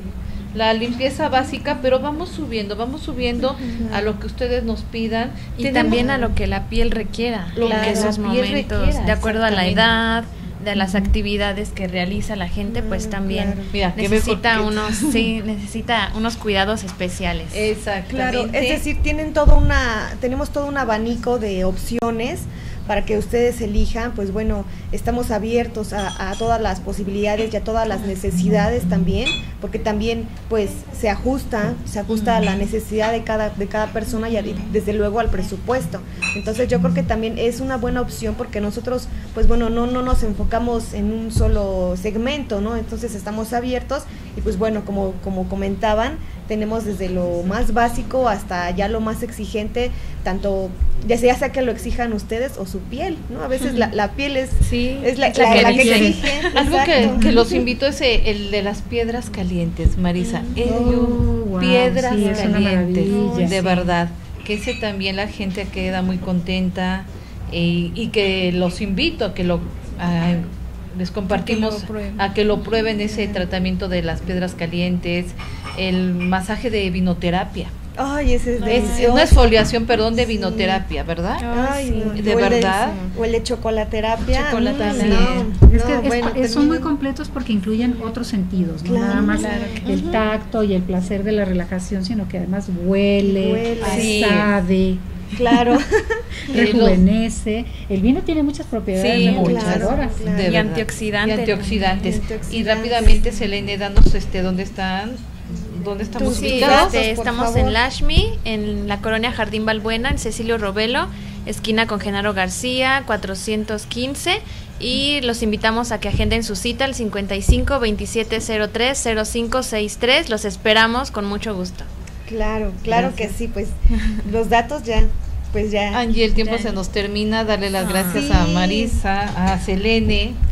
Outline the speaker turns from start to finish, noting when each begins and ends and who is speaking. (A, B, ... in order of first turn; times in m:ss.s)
0:00.5-0:06.1 A
0:03.8-0:04.1 B
0:05.6-0:17.7 C
0:05.8-0:06.3 B
0:07.5-0:09.9 A
0:07.6-0:08.2 B
0:12.7-0:13.7 B
0:13.7-0:15.3 A
0:17.5-0:18.8 A
0:18.1-0:57.2 B
0:32.1-0:32.6 A
0:53.6-0:53.9 C
0:54.6-0:56.7 C
0:55.3-0:56.2 D
0:56.5-1:17.7 A
0:57.0-0:57.5 D
1:00.2-1:00.6 C
1:00.6-1:03.9 D
1:02.1-1:02.5 C
1:03.0-1:03.6 C
1:11.3-1:12.2 C
1:18.0-1:19.5 B
1:18.6-1:19.0 C
1:18.7-1:21.4 A
1:20.1-1:20.8 B
1:21.4-1:22.4 C
1:21.5-1:26.9 B
1:22.2-1:23.0 A
1:24.3-1:25.5 C
1:24.8-1:25.1 A
1:24.9-1:35.0 D
1:28.8-1:29.8 B
1:29.1-1:30.2 C
1:29.8-1:30.2 A
1:33.2-1:34.3 B
1:33.8-1:34.4 A
1:33.8-1:34.5 C
1:35.4-1:36.2 B
1:36.5-1:40.2 D
1:36.5-1:37.0 A
1:38.9-1:39.6 C
1:39.1-1:47.0 A
1:39.3-1:40.5 B
1:40.4-1:42.1 C
1:42.0-1:43.2 B
1:46.1-1:47.8 B
1:46.2-2:01.9 C
2:02.3-2:06.0 B
2:02.9-2:03.3 A
2:05.9-2:10.4 A
2:06.3-2:06.8 C
2:07.8-2:08.3 C
2:08.1-2:09.0 B